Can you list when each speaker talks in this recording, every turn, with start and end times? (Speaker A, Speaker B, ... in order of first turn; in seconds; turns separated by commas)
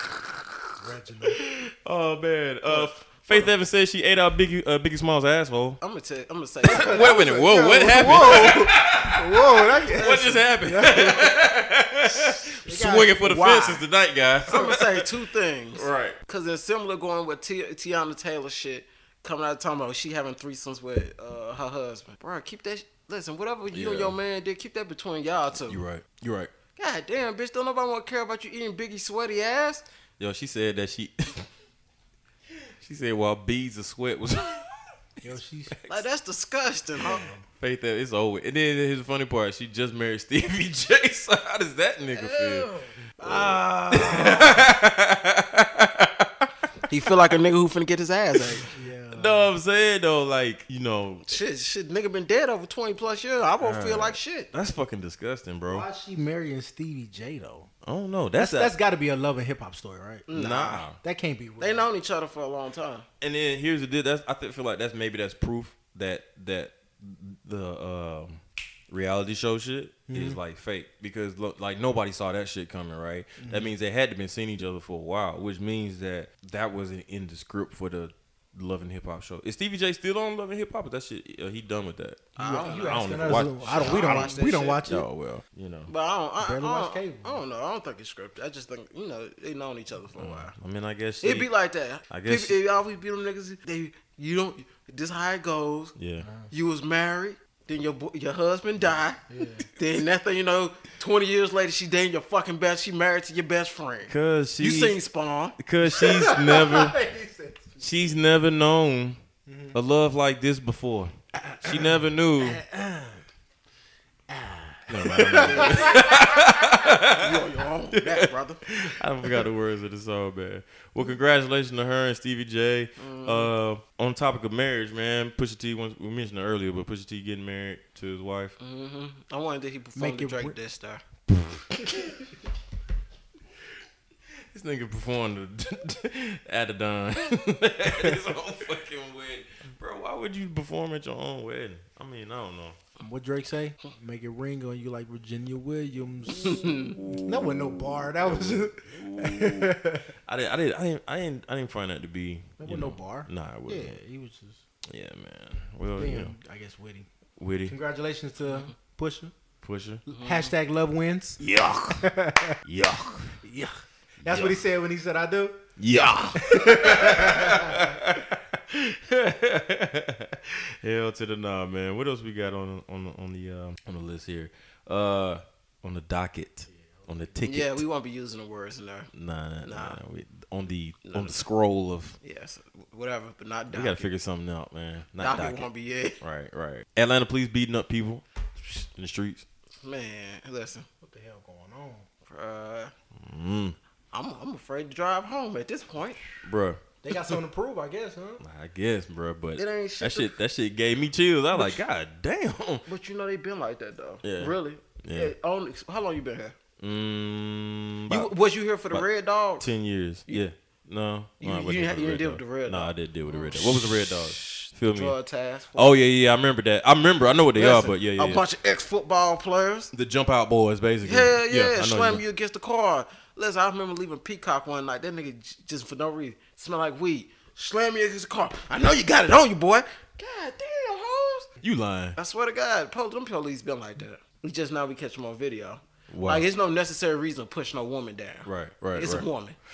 Speaker A: 0.8-1.4, Speaker B: 1.4-5.8, Speaker C: 5.8-7.1, Speaker A: 6.6-11.4, Speaker B: 6.7-15.1, Speaker C: 10.0-10.3, Speaker C: 10.8-11.2, Speaker A: 12.6-13.4, Speaker C: 13.2-13.8, Speaker C: 14.5-25.8, Speaker B: 15.8-16.2, Speaker B: 23.7-24.2, Speaker B: 25.6-26.5, Speaker C: 26.8-29.8, Speaker B: 30.2-31.5, Speaker B: 32.8-34.6, Speaker A: 35.2-35.8, Speaker B: 35.7-36.0, Speaker C: 35.9-37.3, Speaker A: 37.0-37.4, Speaker B: 37.6-46.5, Speaker C: 42.2-44.5, Speaker C: 46.9-48.7, Speaker B: 48.4-51.2, Speaker A: 48.7-49.5, Speaker C: 51.3-54.5, Speaker B: 53.6-55.9, Speaker A: 55.7-57.7, Speaker B: 57.8-58.7, Speaker A: 58.4-60.3, Speaker C: 60.3-60.8, Speaker B: 60.3-61.0, Speaker A: 61.0-61.9, Speaker C: 61.6-63.1, Speaker B: 63.2-85.9, Speaker A: 70.1-70.4, Speaker A: 73.4-73.7, Speaker C: 82.4-84.8, Speaker A: 82.4-85.1, Speaker C: 85.9-90.5, Speaker A: 86.4-87.4, Speaker B: 90.2-91.5, Speaker C: 91.2-96.0, Speaker B: 92.1-92.6, Speaker B: 96.0-96.3, Speaker A: 96.2-96.5, Speaker C: 96.5-99.2, Speaker A: 99.3-99.7, Speaker C: 99.7-105.6, Speaker B: 104.1-105.0, Speaker B: 105.6-107.0, Speaker A: 105.8-107.9, Speaker B: 107.8-109.2, Speaker A: 109.5-109.8, Speaker B: 109.7-112.6, Speaker A: 111.3-113.2, Speaker A: 114.3-116.7, Speaker B: 114.9-117.3, Speaker C: 115.3-116.1, Speaker C: 117.2-118.6, Speaker B: 117.9-128.6, Speaker C: 123.0-123.5, Speaker C: 128.6-131.0, Speaker A: 130.0-130.6, Speaker B: 134.5-142.8, Speaker A: 143.0-146.7, Speaker C: 146.4-147.0, Speaker B: 146.6-154.0, Speaker A: 147.2-150.1, Speaker A: 152.6-154.6, Speaker B: 154.9-156.3, Speaker A: 156.0-157.1, Speaker B: 157.4-157.8, Speaker A: 157.7-159.3, Speaker B: 159.6-160.0, Speaker A: 160.1-161.4, Speaker C: 160.1-160.5, Speaker B: 161.4-162.1, Speaker A: 162.0-162.6, Speaker B: 162.7-163.4, Speaker A: 163.4-165.7, Speaker B: 164.2-164.6, Speaker B: 165.8-177.8, Speaker A: 166.3-168.2, Speaker A: 176.7-177.4, Speaker C: 177.4-179.1, Speaker B: 179.1-182.2, Speaker C: 179.7-180.0, Speaker C: 181.1-181.4, Speaker C: 182.2-184.1, Speaker B: 183.7-185.7, Speaker C: 185.2-186.2, Speaker B: 186.2-189.4, Speaker C: 189.8-190.9, Speaker A: 191.0-192.1, Speaker C: 192.3-192.9, Speaker B: 193.2-193.8, Speaker C: 194.1-196.2, Speaker B: 196.4-196.8, Speaker A: 197.0-198.4, Speaker B: 198.4-202.9, Speaker C: 199.6-200.3, Speaker C: 202.9-206.6, Speaker B: 204.2-205.3, Speaker B: 206.8-208.3, Speaker C: 208.1-209.7, Speaker B: 209.6-215.2, Speaker C: 211.4-215.9, Speaker B: 215.8-218.4, Speaker C: 217.6-219.9, Speaker B: 219.9-222.2, Speaker C: 221.0-231.5, Speaker B: 231.6-232.2, Speaker C: 232.2-239.6, Speaker B: 236.1-236.4, Speaker B: 238.4-239.3